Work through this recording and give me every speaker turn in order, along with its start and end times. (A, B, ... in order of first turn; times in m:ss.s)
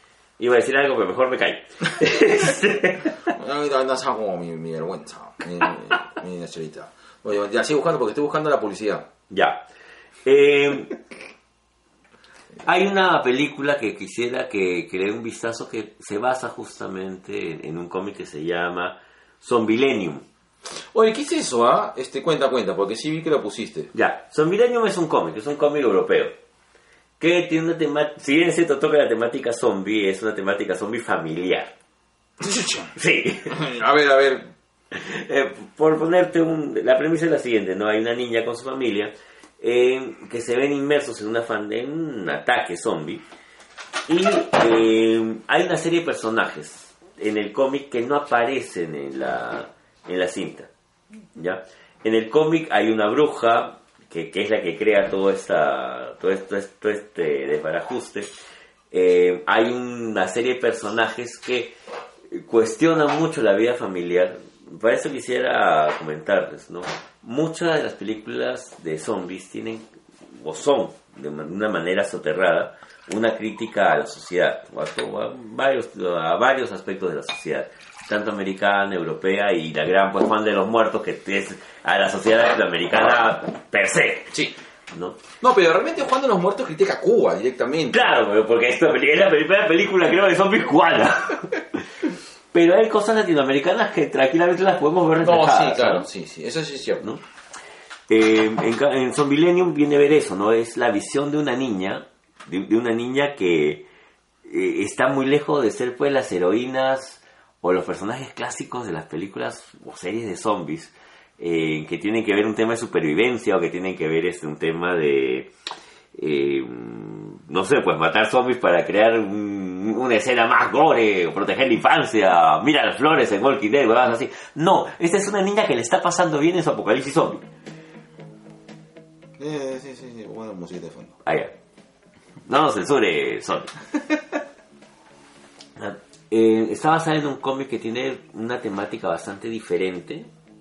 0:00.4-0:03.1 A
0:03.3-0:09.1 B
0:09.3-0:09.6 A
0:10.2-0:11.0 A
0:12.6-0:20.2 A
0:20.9-0:23.9 B
0:23.9-0:26.3 A
0:27.2-0:31.7 A
0:32.4-0:32.9 B
0:33.0-0:33.6 A
0:33.5-0:34.5 B
0:34.9-0:43.2 A
0:44.1-0:50.7 A
0:51.4-0:58.3 A
0:58.9-1:01.7 A
1:02.3-1:24.3 A
1:24.3-1:24.6 B
1:24.9-1:25.2 A
1:25.4-1:28.1 B
1:27.9-1:31.8 A
1:32.5-1:36.1 A
1:35.2-1:37.1 B
1:38.1-1:43.9 A
1:44.4-1:55.5 A
1:56.1-2:07.4 A
2:09.4-2:11.2 B
2:11.2-2:11.5 A
2:12.4-2:13.7 A
2:15.8-2:20.3 A